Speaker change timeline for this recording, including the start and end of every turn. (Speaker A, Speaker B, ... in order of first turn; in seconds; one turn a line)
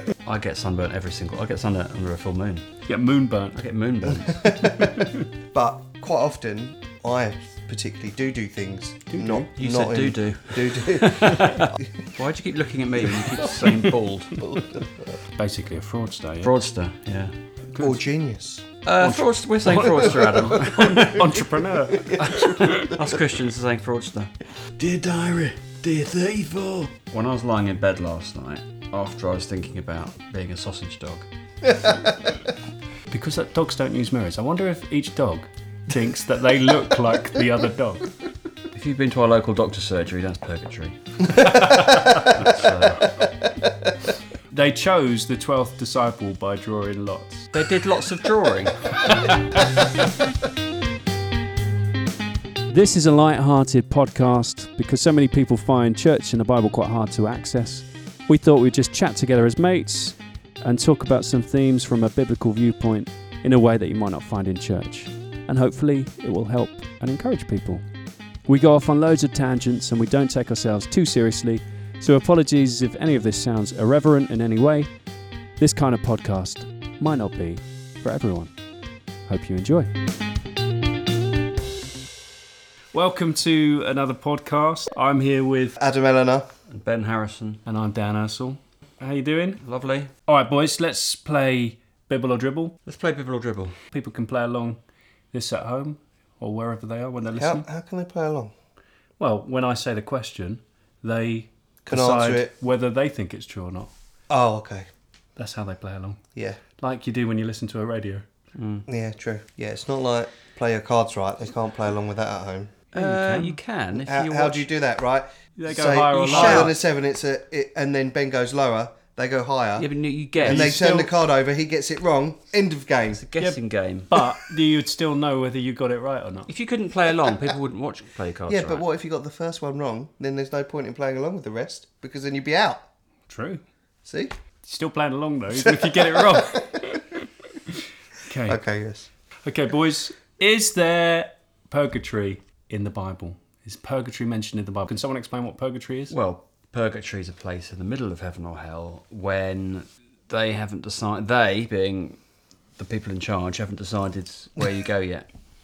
Speaker A: 0.2-2.7
Speaker B: 2.9-3.6
Speaker A: 3.5-4.8
Speaker C: 4.2-5.0
Speaker B: 4.6-5.2
Speaker C: 5.5-12.1
Speaker B: 9.1-9.5
Speaker A: 9.6-14.5
Speaker C: 14.4-15.2
Speaker B: 15.3-16.5
Speaker A: 16.4-17.3
Speaker B: 17.7-18.0
Speaker C: 17.8-18.6
Speaker A: 18.8-31.2
Speaker B: 19.0-22.9
Speaker C: 21.9-23.0
Speaker C: 31.7-32.4
Speaker B: 33.1-38.1
Speaker A: 38.7-43.2
Speaker B: 41.3-42.6
Speaker B: 44.5-47.5
Speaker A: 47.5-49.1
Speaker B: 49.0-49.4
Speaker B: 52.7-67.9
Speaker B: 68.5-74.9
Speaker B: 75.6-78.5
Speaker B: 79.2-79.9
Speaker B: 82.9-85.8
Speaker C: 85.8-86.5
Speaker A: 86.7-87.6
Speaker B: 87.6-89.6
Speaker A: 89.6-90.1
Speaker B: 90.2-92.8
Speaker A: 92.8-93.8
Speaker B: 93.9-94.8
Speaker B: 95.3-97.7
Speaker C: 97.4-98.5
Speaker B: 99.2-103.9
Speaker C: 101.8-102.5
Speaker C: 104.3-104.9
Speaker B: 105.3-106.2
Speaker C: 106.3-106.6
Speaker B: 106.8-108.2
Speaker A: 108.5-108.8
Speaker C: 108.9-119.9
Speaker A: 112.9-114.7
Speaker B: 115.6-116.7
Speaker A: 116.1-116.7
Speaker A: 119.8-121.1
Speaker C: 120.4-123.2
Speaker A: 123.1-124.1
Speaker B: 123.4-126.5
Speaker A: 126.5-128.8
Speaker C: 128.5-132.8
Speaker B: 133.3-133.6
Speaker C: 134.0-134.3
Speaker B: 134.6-137.2
Speaker C: 135.5-136.8
Speaker B: 138.3-138.6
Speaker C: 138.4-139.1
Speaker B: 139.4-146.1
Speaker A: 146.1-152.2
Speaker A: 152.8-155.3